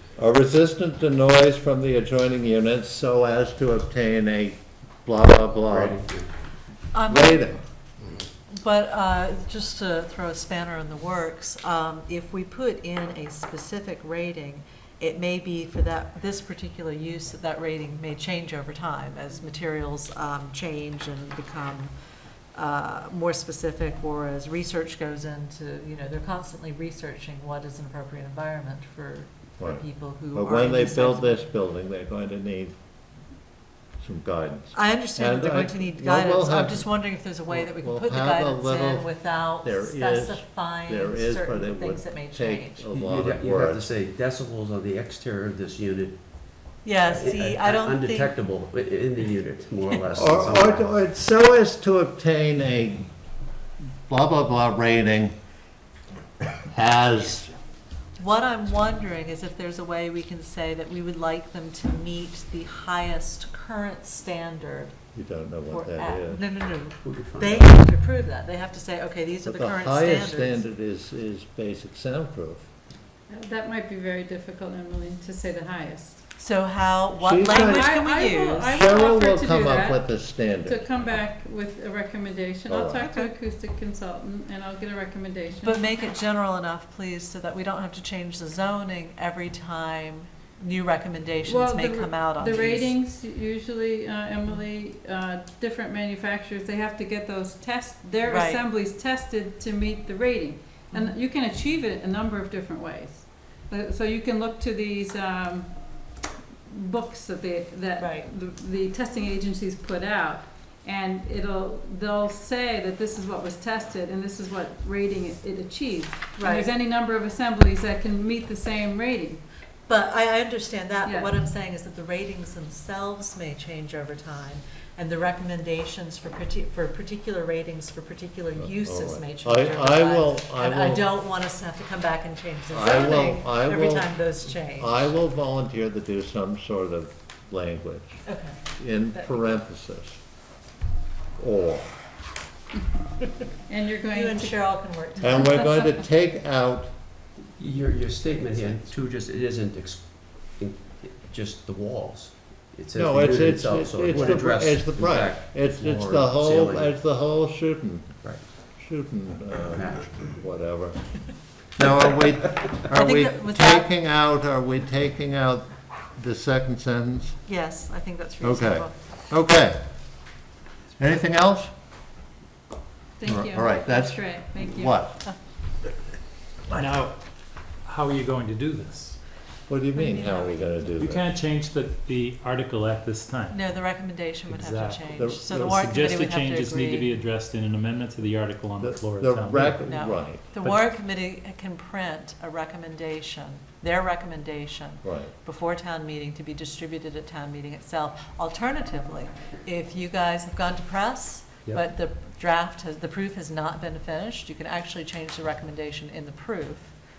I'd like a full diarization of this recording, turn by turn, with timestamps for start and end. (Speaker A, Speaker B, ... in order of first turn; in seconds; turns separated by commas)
Speaker A: 0.1-6.0, Speaker B: 5.7-6.3, Speaker C: 6.9-7.5, Speaker A: 7.1-7.6, Speaker C: 8.5-21.9, Speaker C: 22.5-31.4, Speaker A: 29.6-32.7, Speaker A: 34.0-36.9, Speaker C: 34.7-42.9, Speaker A: 37.5-43.9, Speaker B: 43.0-51.0, Speaker C: 46.8-48.3, Speaker A: 50.1-53.1, Speaker A: 54.1-55.3, Speaker A: 56.6-57.5, Speaker C: 58.2-65.0, Speaker A: 65.1-66.4, Speaker C: 65.7-70.6, Speaker B: 67.0-67.8, Speaker A: 69.4-72.7, Speaker D: 73.3-76.2, Speaker C: 76.4-78.8, Speaker A: 77.2-77.9, Speaker D: 77.5-85.8, Speaker A: 78.7-80.8, Speaker A: 82.7-83.0, Speaker C: 83.0-83.3, Speaker C: 85.6-92.9, Speaker D: 91.5-106.1, Speaker C: 98.2-98.6, Speaker D: 106.7-119.4, Speaker C: 108.0-108.3, Speaker C: 116.3-116.7, Speaker C: 119.9-135.1, Speaker D: 121.0-121.3, Speaker A: 128.6-131.1, Speaker A: 132.7-138.2, Speaker C: 138.2-138.6, Speaker A: 138.8-140.2, Speaker C: 139.1-139.6, Speaker A: 141.4-141.9, Speaker D: 143.7-144.6, Speaker C: 144.1-145.8, Speaker A: 145.2-146.9, Speaker B: 147.6-156.9, Speaker A: 152.9-161.2, Speaker B: 158.2-158.5, Speaker B: 159.7-160.2, Speaker A: 161.8-167.4, Speaker C: 162.9-163.9, Speaker C: 167.4-169.0, Speaker A: 168.4-169.8, Speaker A: 171.0-171.7, Speaker D: 173.2-175.2, Speaker A: 173.2-175.2, Speaker E: 176.7-179.2, Speaker A: 179.7-181.3, Speaker C: 179.9-180.7, Speaker E: 181.0-183.7, Speaker C: 183.5-187.2, Speaker E: 184.5-189.8, Speaker A: 185.2-185.9, Speaker A: 188.8-190.8, Speaker C: 189.9-206.9, Speaker A: 195.0-195.3